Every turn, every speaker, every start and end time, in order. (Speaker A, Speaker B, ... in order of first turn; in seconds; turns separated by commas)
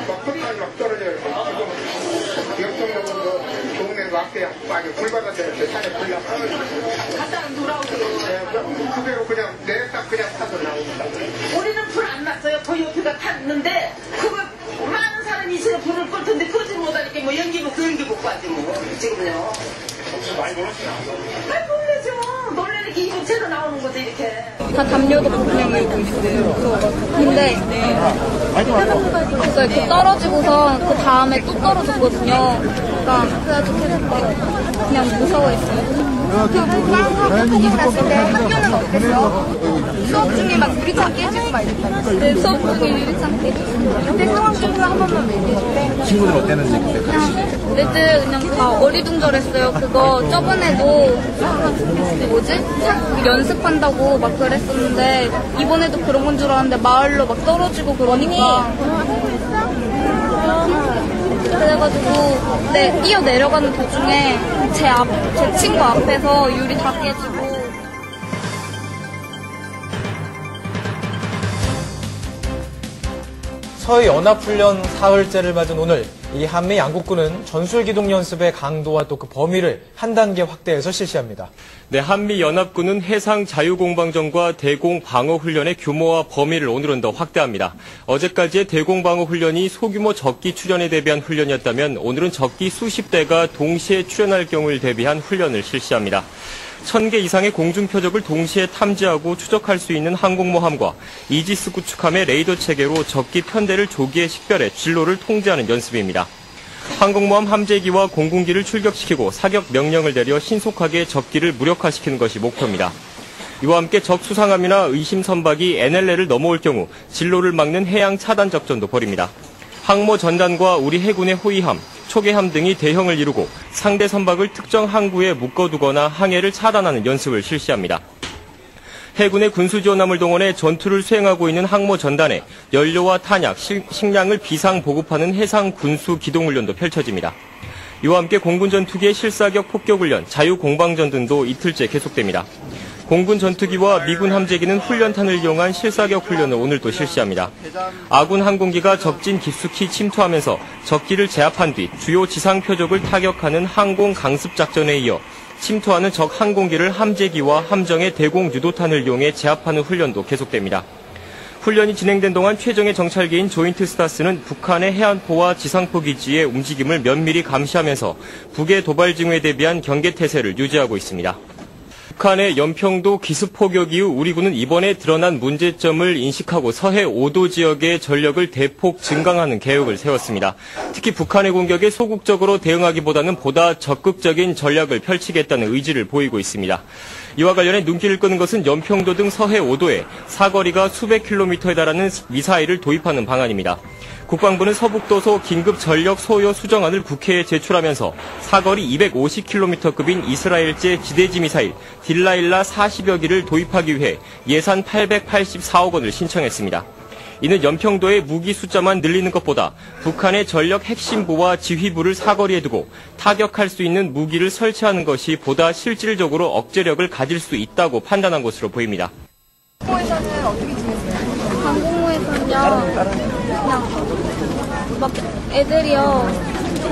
Speaker A: 0.7-1.4, Speaker A: 4.0-5.9, Speaker B: 7.1-9.0, Speaker A: 9.4-10.6, Speaker B: 11.3-19.6, Speaker B: 20.5-20.8, Speaker B: 21.4-24.6, Speaker C: 24.7-28.0, Speaker C: 29.4-36.0, Speaker D: 36.8-42.1, Speaker C: 37.9-38.2, Speaker C: 42.2-44.1, Speaker D: 44.2-46.6, Speaker C: 47.0-51.5, Speaker C: 52.0-58.8, Speaker C: 61.5-67.8, Speaker E: 73.8-81.5, Speaker F: 81.9-96.3, Speaker F: 96.8-106.3, Speaker F: 106.9-113.0, Speaker F: 113.6-128.0, Speaker F: 129.2-137.4, Speaker F: 138.0-142.5, Speaker F: 143.1-160.9, Speaker F: 161.6-171.4, Speaker F: 172.2-186.8, Speaker F: 187.4-206.9, Speaker F: 207.4-219.1, Speaker C: 221.6-223.0, Speaker C: 223.6-224.0, Speaker C: 224.9-226.4